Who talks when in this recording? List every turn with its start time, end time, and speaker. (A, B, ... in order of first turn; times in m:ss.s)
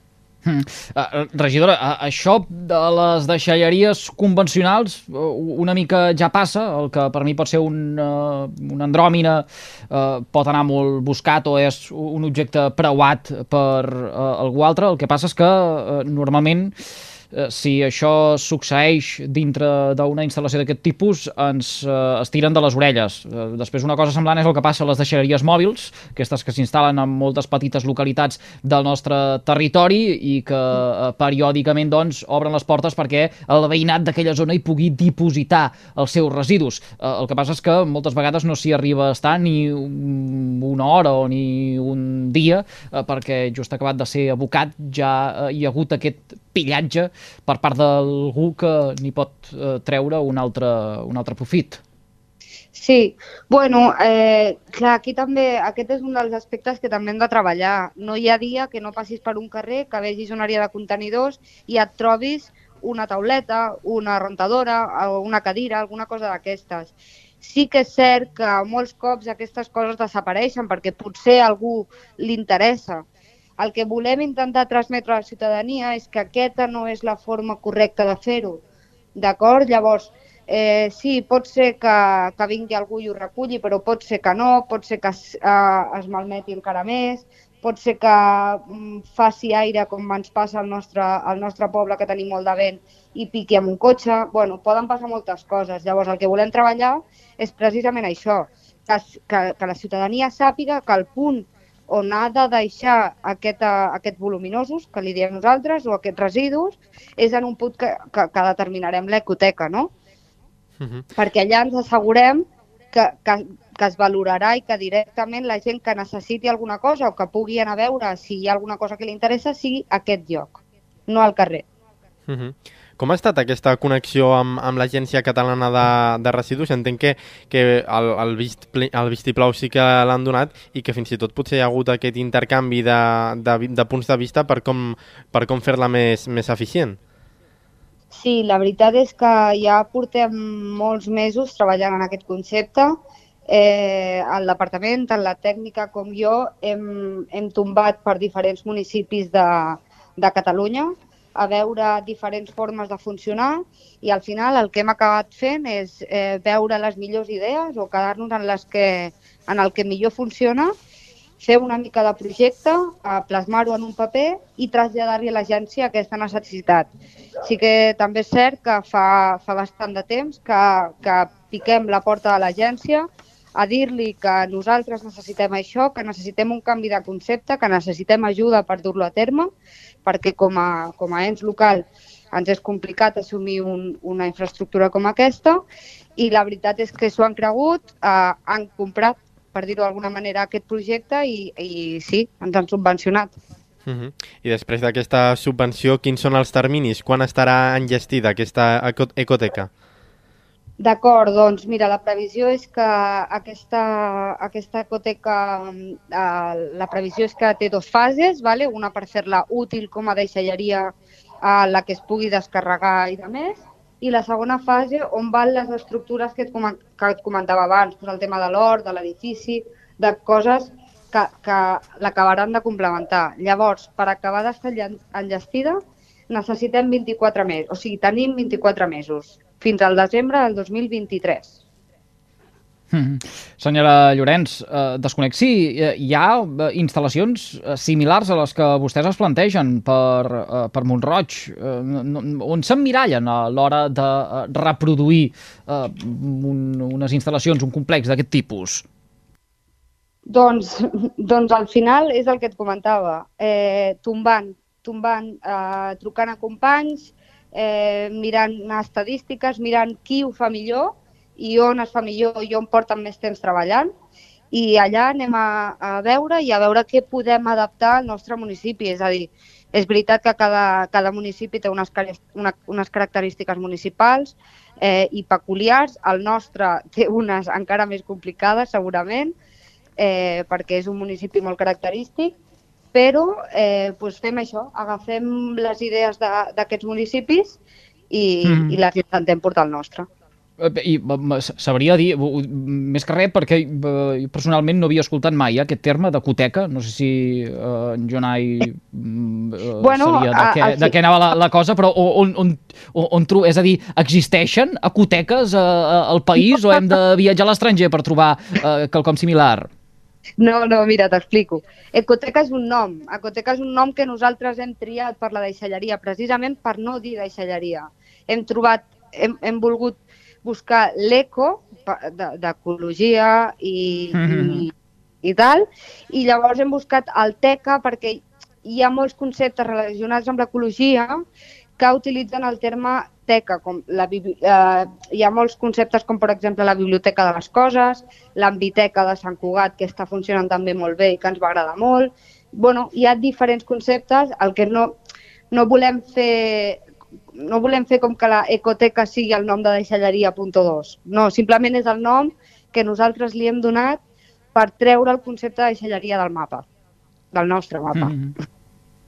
0:00.4-0:16.7 A
0:17.3-0:51.8 A
0:52.7-1:13.0 B
1:13.6-1:18.6 B
1:19.2-1:49.9 B
1:50.8-1:51.1 C
1:51.2-2:01.6 B
2:02.3-2:17.0 C
2:18.1-2:23.0 B
2:23.5-2:40.7 B
2:41.4-2:46.9 B
2:47.4-2:59.5 B
3:00.1-3:05.6 B
3:06.2-3:13.3 B
3:13.8-3:19.7 C
3:20.8-3:45.8 B
3:46.3-3:51.6 B
3:52.9-4:08.8 A
4:10.3-4:23.9 B
4:24.5-4:39.3 B
4:40.0-4:42.3 B
4:42.9-4:47.6 B
4:48.1-4:50.1 B
4:48.4-4:48.8 A
4:50.6-5:09.7 A
4:59.8-5:01.0 B
5:10.4-5:24.7 B
5:24.1-5:24.6 A
5:25.2-5:31.2 B
5:31.8-5:44.9 B
5:45.5-5:46.8 B
5:47.4-5:54.0 B
5:54.5-5:56.6 B
5:57.3-5:58.1 B
5:57.9-5:58.4 A